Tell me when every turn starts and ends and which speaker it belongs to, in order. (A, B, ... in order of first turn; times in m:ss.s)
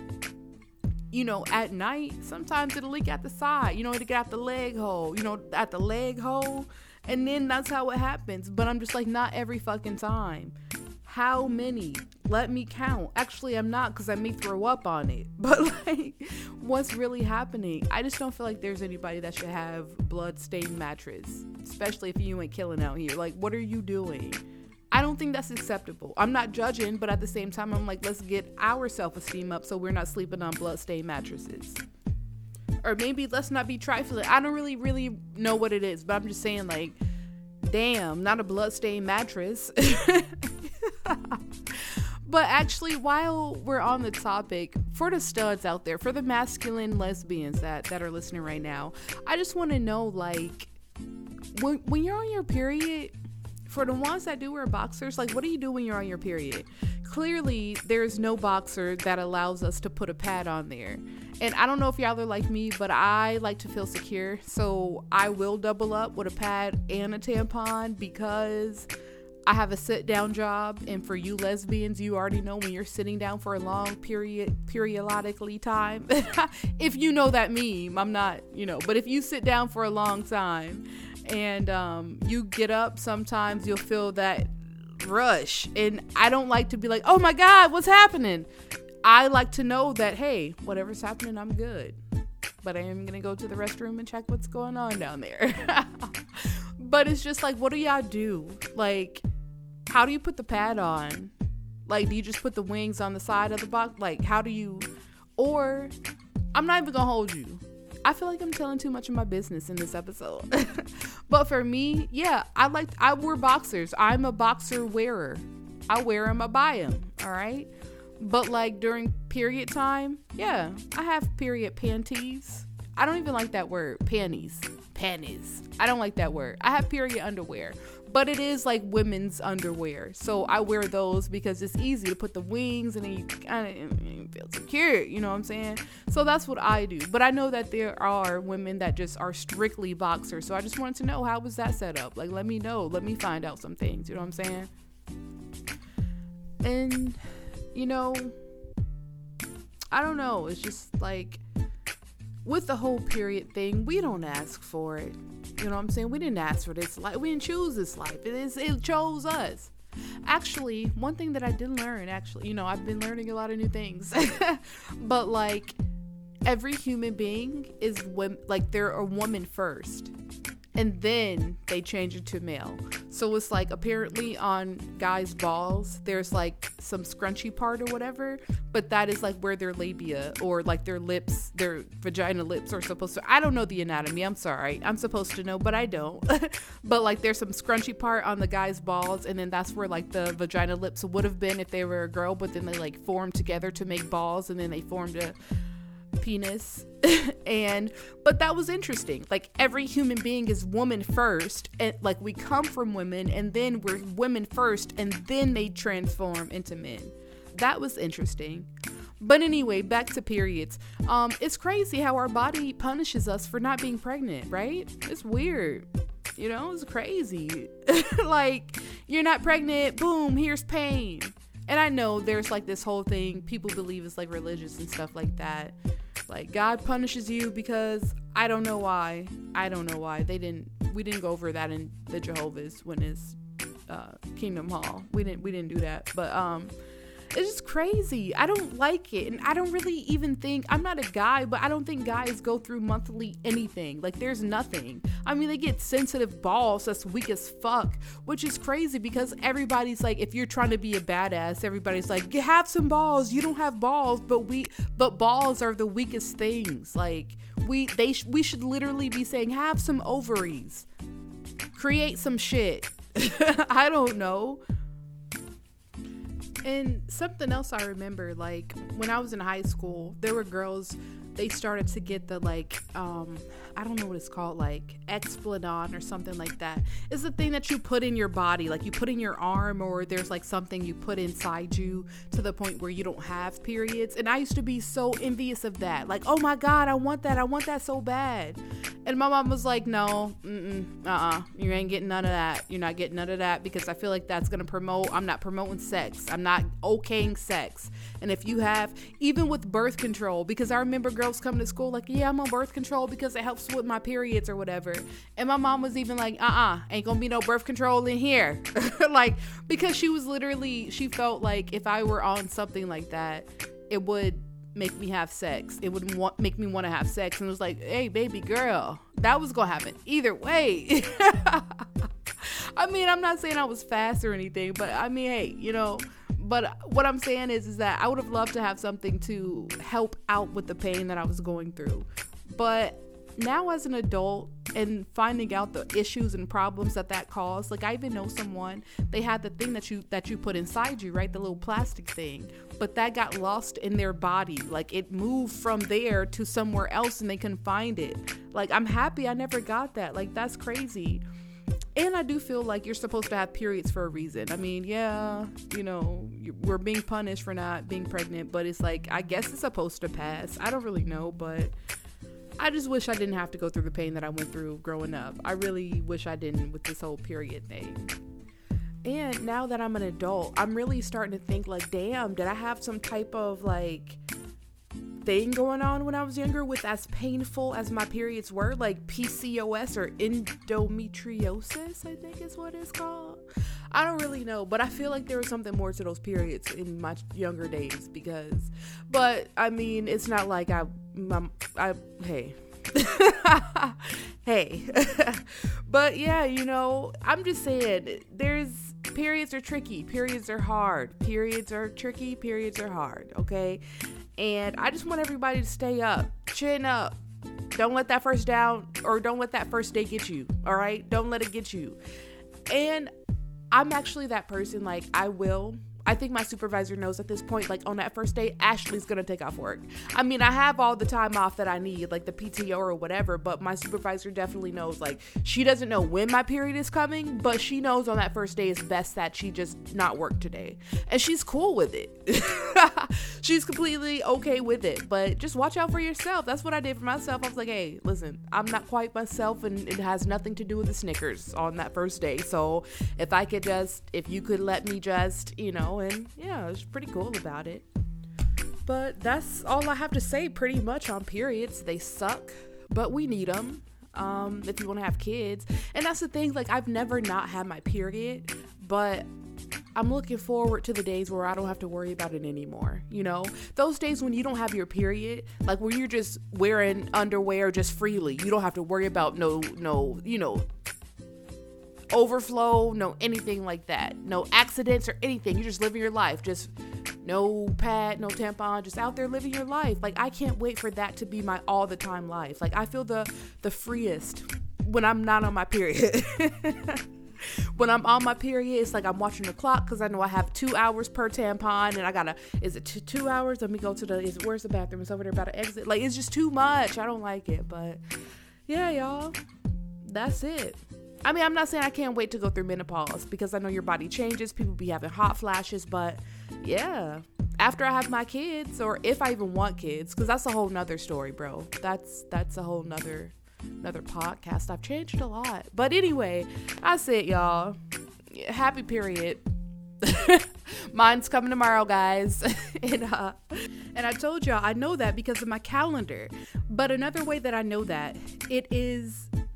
0:01.1-0:31.8 A
0:32.8-0:37.0 A
0:37.6-0:50.7 A
0:51.5-0:53.2 A
0:53.7-1:08.9 A
1:09.5-1:28.5 A
1:29.0-1:32.0 A
1:32.6-1:39.2 A
1:39.9-1:41.3 A
1:41.9-1:45.9 A
1:46.5-2:24.7 A
2:26.6-2:27.2 A
2:27.7-2:28.4 A
2:29.9-2:31.4 A
2:32.4-2:39.7 A
2:40.2-2:45.8 A
2:46.5-2:50.1 A
2:50.8-3:15.4 A
3:16.2-3:28.7 A
3:29.2-3:35.9 A
3:36.4-3:45.8 A
3:46.3-3:56.7 A
3:57.3-4:20.9 A
4:21.7-4:24.6 A
4:26.6-5:51.2 A
5:52.0-6:01.7 A
6:02.6-6:08.1 A
6:09.0-6:14.2 A
6:15.2-6:43.8 A
6:44.4-6:47.2 A
6:47.7-6:52.0 A
6:52.7-6:53.1 A
6:53.7-7:27.9 A
7:28.9-7:39.3 A
7:40.0-7:50.7 A
7:52.1-8:07.1 A
8:07.7-8:18.0 A
8:18.7-8:19.4 A
8:20.0-8:37.8 A
8:38.3-8:39.4 A
8:40.0-8:49.3 A